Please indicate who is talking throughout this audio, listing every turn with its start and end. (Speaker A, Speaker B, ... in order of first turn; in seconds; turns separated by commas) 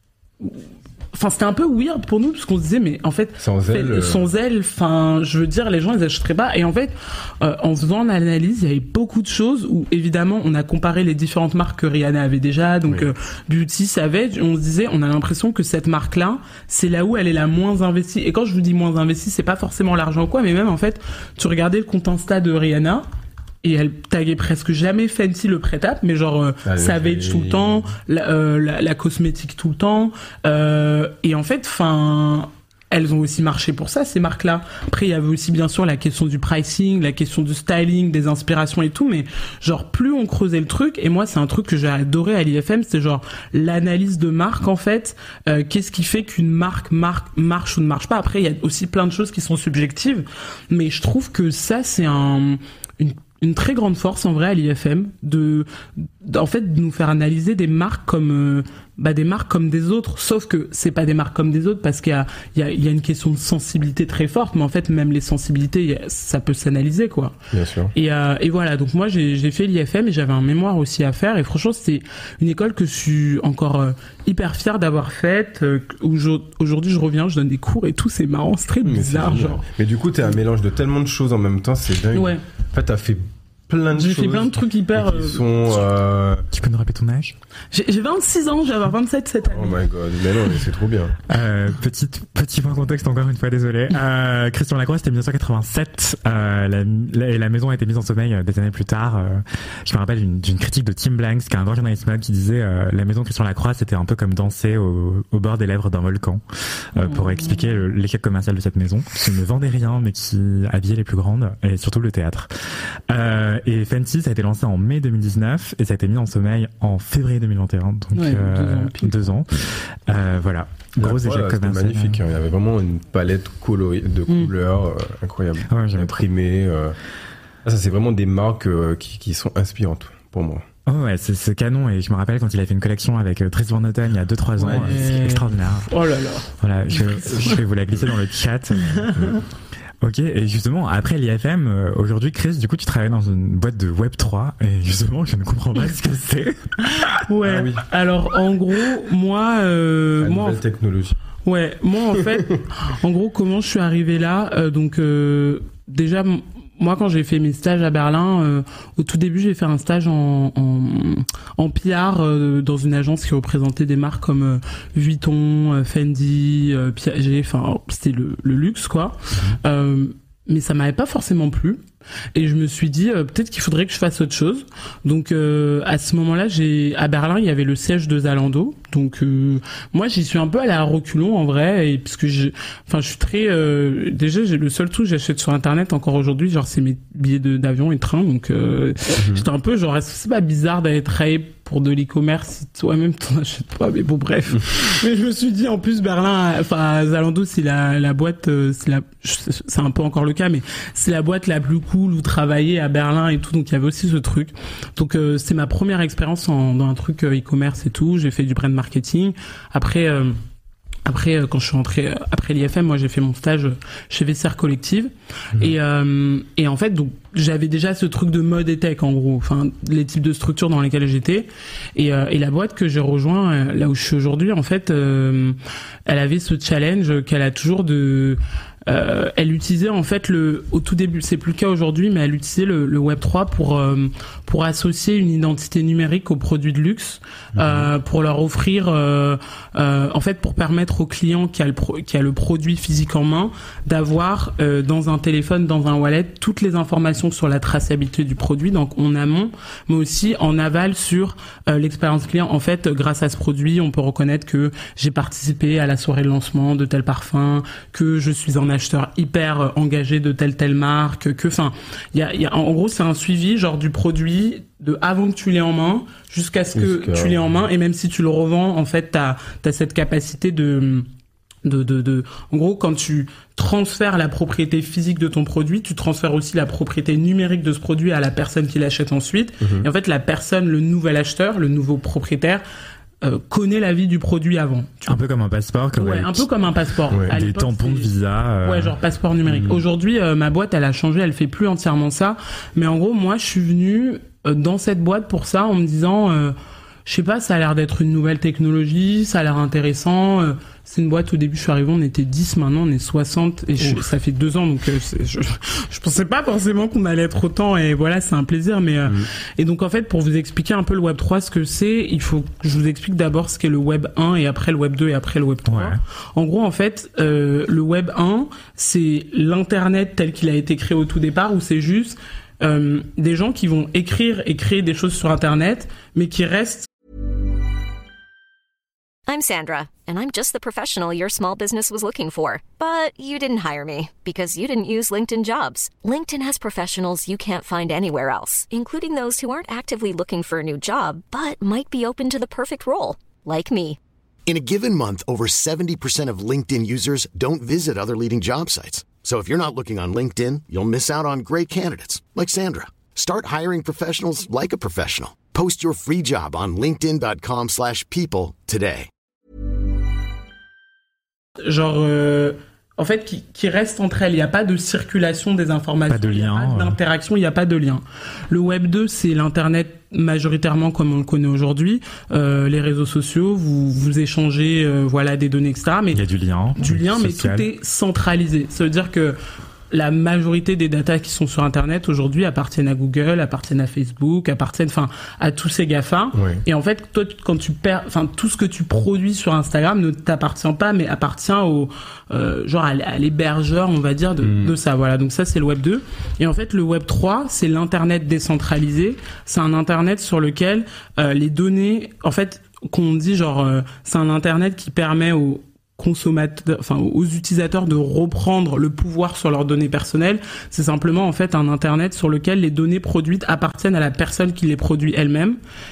Speaker A: 0.4-23.0, Speaker B: 3.4-4.2, Speaker A: 23.6-67.3, Speaker B: 26.6-27.9, Speaker B: 67.5-67.9, Speaker A: 67.9-79.6, Speaker B: 78.8-86.5, Speaker A: 82.1-82.4, Speaker A: 83.9-85.5, Speaker C: 86.5-87.4, Speaker A: 87.7-89.8, Speaker B: 89.5-91.2, Speaker C: 91.3-106.4, Speaker C: 106.9-122.2, Speaker A: 107.0-107.8, Speaker A: 118.1-119.2, Speaker B: 121.0-127.0, Speaker C: 125.7-126.2, Speaker B: 127.6-130.6, Speaker C: 130.9-135.9, Speaker A: 134.6-137.6, Speaker C: 136.6-139.3, Speaker A: 138.9-139.4, Speaker C: 140.0-147.1, Speaker A: 147.3-150.6, Speaker B: 147.4-147.8, Speaker B: 150.2-151.2, Speaker A: 151.4-171.8, Speaker A: 172.3-210.4, Speaker A: 211.1-271.1, Speaker B: 237.6-237.9, Speaker B: 266.7-267.5, Speaker A: 271.6-282.6, Speaker B: 279.6-279.9, Speaker A: 283.2-285.2, Speaker C: 285.1-286.5, Speaker A: 286.0-288.1, Speaker C: 287.3-289.0, Speaker A: 288.6-296.5, Speaker B: 289.5-289.8, Speaker A: 297.1-326.9, Speaker C: 315.6-316.0, Speaker D: 329.3-344.0, Speaker E: 344.5-359.1, Speaker A: 361.6-376.2, Speaker C: 366.1-367.0, Speaker C: 376.1-377.6, Speaker A: 376.8-379.4, Speaker A: 379.9-415.6, Speaker B: 386.4-386.6, Speaker B: 394.4-394.7